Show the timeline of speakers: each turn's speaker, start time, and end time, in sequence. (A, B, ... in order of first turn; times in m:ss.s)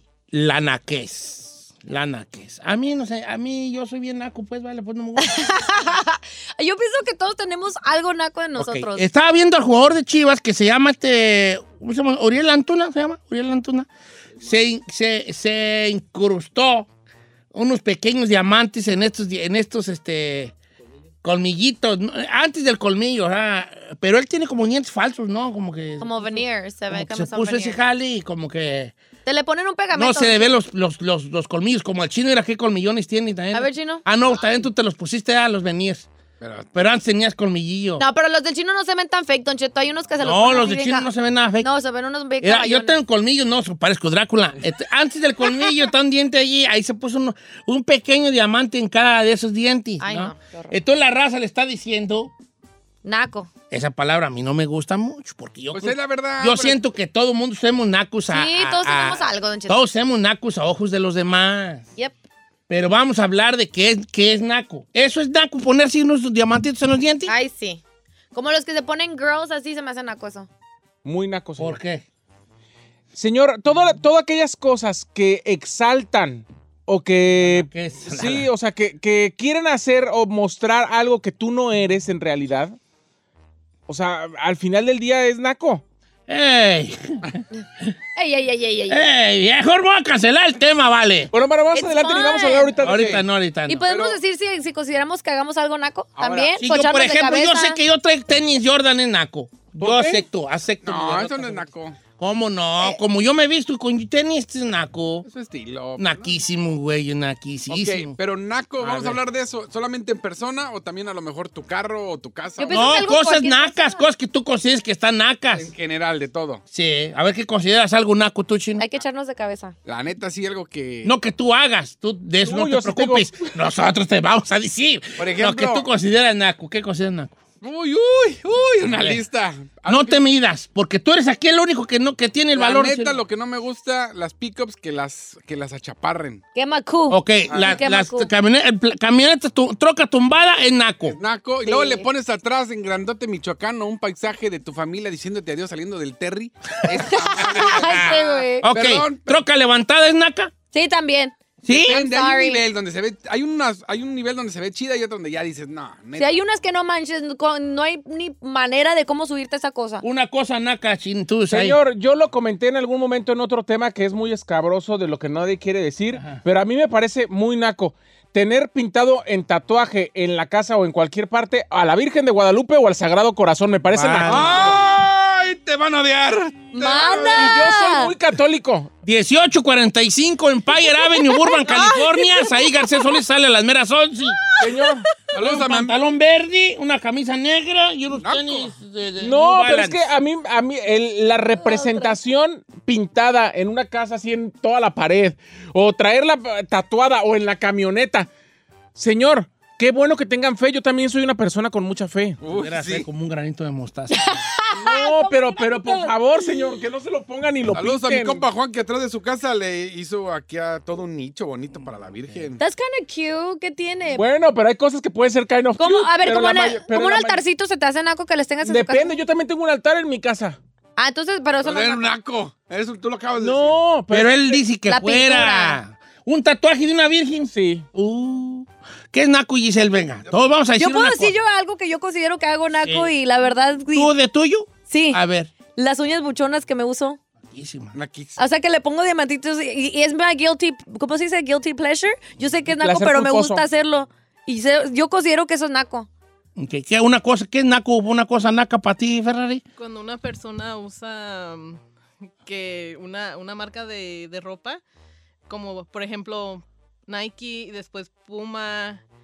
0:00.3-0:05.4 A
0:05.2-0:09.1 B
0:08.6-0:13.9 A
0:14.4-0:16.9 A
0:17.5-0:20.5 A
0:21.2-0:28.9 A
0:26.0-0:27.8 B
0:29.3-0:30.6 B
0:29.9-0:36.1 A
0:33.5-0:34.0 B
0:36.4-0:36.8 C
0:36.7-0:38.0 A
0:38.0-0:43.0 B
0:40.2-0:41.7 A
0:42.4-0:52.3 A
0:50.0-0:50.8 B
0:53.0-0:53.5 B
0:53.7-1:01.9 A
0:55.7-0:56.8 C
0:58.3-0:59.9 B
1:02.7-1:07.3 A
1:07.3-1:07.8 B
1:08.3-1:10.5 B
1:11.0-1:11.8 D
1:11.6-1:12.0 A
1:13.1-1:22.8 D
1:17.4-1:18.5 A
1:23.9-1:25.8 D
1:26.3-1:27.9 A
1:28.2-1:29.0 B
1:28.9-1:31.3 A
1:31.3-1:33.2 D
1:31.7-1:32.7 B
1:32.8-1:33.9 A
1:32.8-1:33.2 C
1:33.7-1:37.8 B
1:33.8-1:34.2 C
1:36.2-1:36.6 C
1:36.6-1:45.3 A
1:39.8-1:40.2 D
1:40.8-1:42.0 C
1:45.3-1:46.4 C
1:46.0-1:48.2 A
1:47.7-1:53.0 C
1:48.8-1:49.2 A
1:52.6-1:54.1 B
1:52.7-1:55.7 A
1:55.5-1:56.6 C
1:56.7-1:58.8 A
1:58.8-1:59.8 B
1:59.8-2:01.1 C
2:01.0-2:07.4 A
2:02.4-2:03.3 D
2:05.2-2:05.8 C
2:07.6-2:10.2 C
2:08.9-2:09.2 A
2:09.9-2:13.2 A
2:12.6-2:16.4 C
2:16.6-2:18.3 B
2:17.1-2:21.2 A
2:17.5-2:17.8 C
2:21.1-2:29.4 C
2:21.6-2:22.1 B
2:26.9-2:30.5 A
2:27.1-2:28.7 B
2:30.7-2:32.6 B
2:31.6-2:32.0 A
2:31.8-2:36.4 C
2:36.2-2:40.0 B
2:40.0-2:41.8 A
2:41.5-2:54.8 D
2:46.2-2:46.4 A
2:53.9-2:54.8 A
2:54.3-2:57.6 C
2:56.7-2:58.1 B
2:57.3-2:58.9 D
2:59.0-3:04.4 A
3:01.0-3:01.6 B
3:01.7-3:02.9 E
3:04.6-3:05.1 D
3:05.3-3:06.0 C
3:05.3-3:10.1 A
3:08.2-3:08.7 C
3:09.2-3:18.3 D
3:11.6-3:12.1 B
3:19.0-3:22.4 D
3:22.4-3:23.1 C
3:22.5-3:24.5 A
3:24.2-3:26.7 B
3:24.8-3:28.5 D
3:27.7-3:32.6 C
3:32.6-3:34.2 B
3:34.2-3:37.4 D
3:35.8-3:39.2 B
3:38.6-3:40.6 D
3:41.0-3:42.1 B
3:41.6-3:43.8 C
3:43.4-3:44.6 D
3:44.1-3:51.4 A
3:44.9-3:45.8 B
3:47.5-3:47.9 D
3:50.8-3:54.1 B
3:52.8-3:53.1 A
3:53.9-3:55.5 A
3:54.9-3:55.2 B
3:55.8-3:57.2 B
3:57.5-3:58.0 A
3:57.9-3:58.4 C
3:58.4-4:06.1 B
4:02.7-4:03.6 D
4:06.6-4:09.6 A
4:09.8-4:11.8 E
4:12.4-4:14.8 E
4:15.5-4:19.0 E